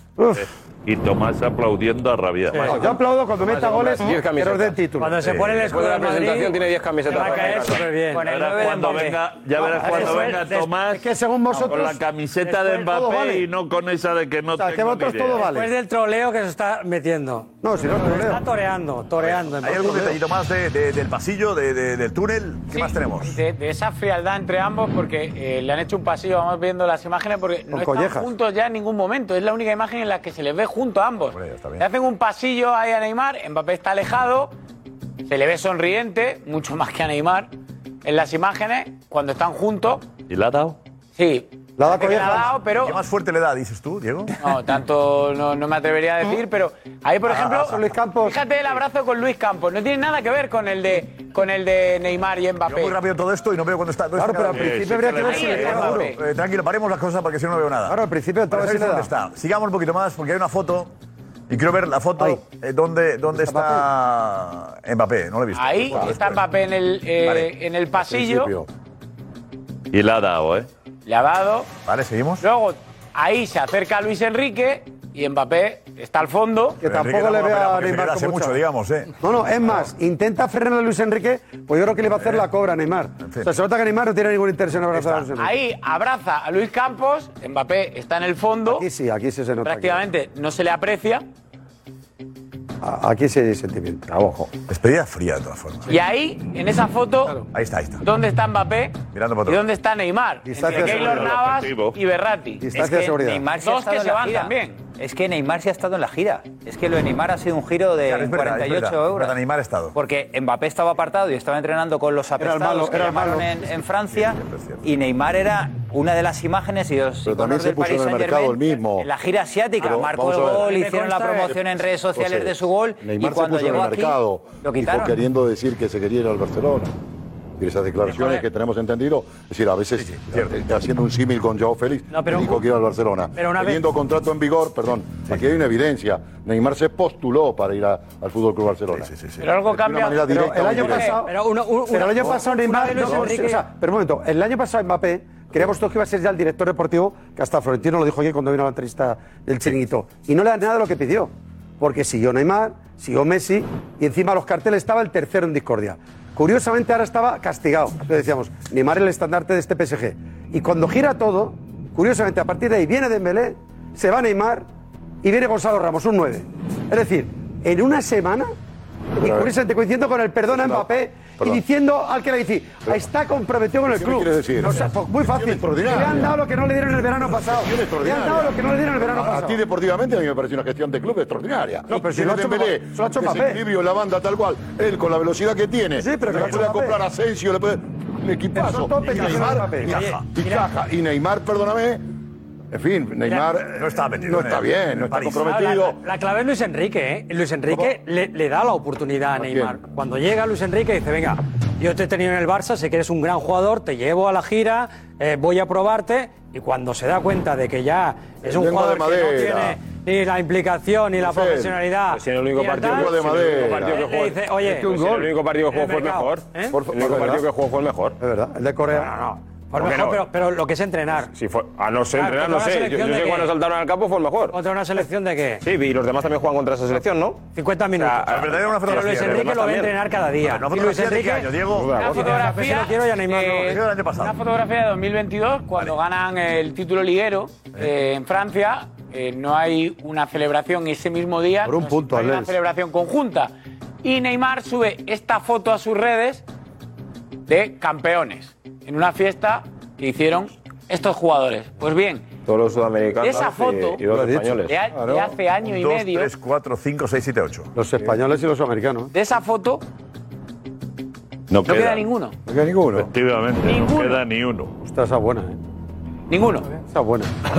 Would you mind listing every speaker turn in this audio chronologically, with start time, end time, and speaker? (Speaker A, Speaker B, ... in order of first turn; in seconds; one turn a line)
Speaker A: 0.2-0.5
Speaker B: 0.3-2.9
Speaker C: 2.5-2.8
Speaker A: 2.6-5.1
Speaker D: 2.7-4.8
Speaker C: 5.0-8.2
Speaker E: 5.2-5.8
Speaker D: 5.7-7.9
Speaker F: 8.1-9.2
Speaker B: 8.1-15.4
Speaker A: 9.6-13.5
Speaker C: 9.6-10.8
Speaker A: 14.6-15.7
Speaker C: 15.4-20.1
Speaker A: 17.6-18.4
Speaker E: 19.2-23.4
Speaker A: 19.8-20.1
Speaker G: 22.7-34.5
Speaker A: 27.7-28.3
Speaker E: 31.3-31.9
Speaker G: 35.3-37.5
Speaker G: 38.0-40.0
Speaker B: 40.3-40.8
Speaker G: 41.2-43.0
Speaker A: 41.8-42.6
Speaker E: 42.7-44.4
Speaker G: 44.4-53.0
Speaker A: 47.3-48.4
Speaker E: 52.7-60.9
Speaker A: 54.1-56.1
Speaker B: 54.5-55.9
Speaker G: 55.2-56.2
Speaker A: 57.9-59.1
Speaker E: 61.5-66.5
Speaker A: 62.2-62.4
Speaker A: 63.3-63.9
Speaker G: 65.5-68.5
Speaker E: 67.2-67.5
Speaker H: 68.0-68.7
Speaker B: 69.9-70.7
Speaker G: 71.1-71.7
Speaker E: 71.9-72.4
Speaker G: 72.4-76.8
Speaker A: 76.8-78.6
Speaker E: 76.8-79.8
Speaker A: 79.2-85.6
Speaker E: 82.1-82.5
Speaker E: 83.2-83.5
Speaker E: 84.9-85.2
Speaker G: 85.3-88.9
Speaker A: 88.7-90.0
Speaker G: 89.6-91.2
Speaker A: 92.8-94.0
Speaker D: 94.1-94.5
Speaker E: 94.7-96.0
Speaker G: 95.9-97.4
Speaker E: 97.5-98.1
Speaker G: 98.0-102.6
Speaker E: 99.1-99.7
Speaker A: 100.5-101.3
Speaker B: 100.6-102.0
Speaker A: 102.6-103.5
Speaker F: 102.8-109.4
Speaker G: 103.5-104.8
Speaker E: 108.0-110.0
Speaker F: 109.9-125.1
Speaker A: 112.4-113.6
Speaker E: 114.0-114.9
Speaker H: 117.2-119.1
Speaker H: 119.8-120.7
Speaker C: 120.5-121.5
Speaker H: 122.2-126.9
Speaker H: 127.6-141.1
Speaker E: 130.0-130.6
Speaker C: 132.1-132.6
Speaker C: 133.4-133.8
Speaker E: 138.9-139.4
Speaker G: 139.4-141.2
Speaker A: 140.3-164.7
Speaker C: 141.2-143.7
Speaker A: 165.2-168.5
Speaker A: 169.2-179.6
Speaker H: 169.2-169.5
Speaker H: 170.5-170.9
Speaker H: 173.9-176.3
Speaker H: 177.2-192.0
Speaker A: 181.9-183.6
Speaker A: 186.0-187.0
Speaker A: 188.5-190.0
Speaker E: 189.1-190.3
Speaker C: 189.9-190.7
Speaker H: 192.7-196.0
Speaker E: 193.8-195.6
Speaker C: 195.4-213.3
Speaker H: 199.4-199.8
Speaker H: 208.5-209.8
Speaker H: 211.2-211.8
Speaker D: 212.1-218.2
Speaker H: 212.8-214.0
Speaker C: 213.8-215.0
Speaker A: 214.6-215.3
Speaker C: 215.7-216.8
Speaker H: 216.7-217.3
Speaker A: 217.0-217.4
Speaker A: 218.2-219.2
Speaker C: 219.0-221.3
Speaker D: 219.8-220.3
Speaker D: 221.3-224.6
Speaker C: 222.1-223.5
Speaker C: 224.5-225.7
Speaker D: 225.6-229.8
Speaker C: 227.5-233.8
Speaker E: 228.2-231.9
Speaker D: 231.1-232.4
Speaker G: 232.0-243.5
Speaker E: 233.7-234.3
Speaker A: 241.6-242.5
Speaker G: 244.0-246.4
Speaker G: 247.5-252.3
Speaker D: 252.5-254.8
Speaker G: 253.2-254.0
Speaker A: 254.1-254.6
Speaker G: 254.7-256.3
Speaker H: 254.9-255.3
Speaker E: 255.6-257.7
Speaker A: 257.8-259.1
Speaker G: 259.1-259.8
Speaker B: 261.5-262.0
Speaker G: 261.6-262.4
Speaker H: 262.5-263.1
Speaker B: 262.9-264.7
Speaker G: 263.6-264.2
Speaker A: 264.8-265.6
Speaker G: 266.3-266.8
Speaker A: 266.9-267.3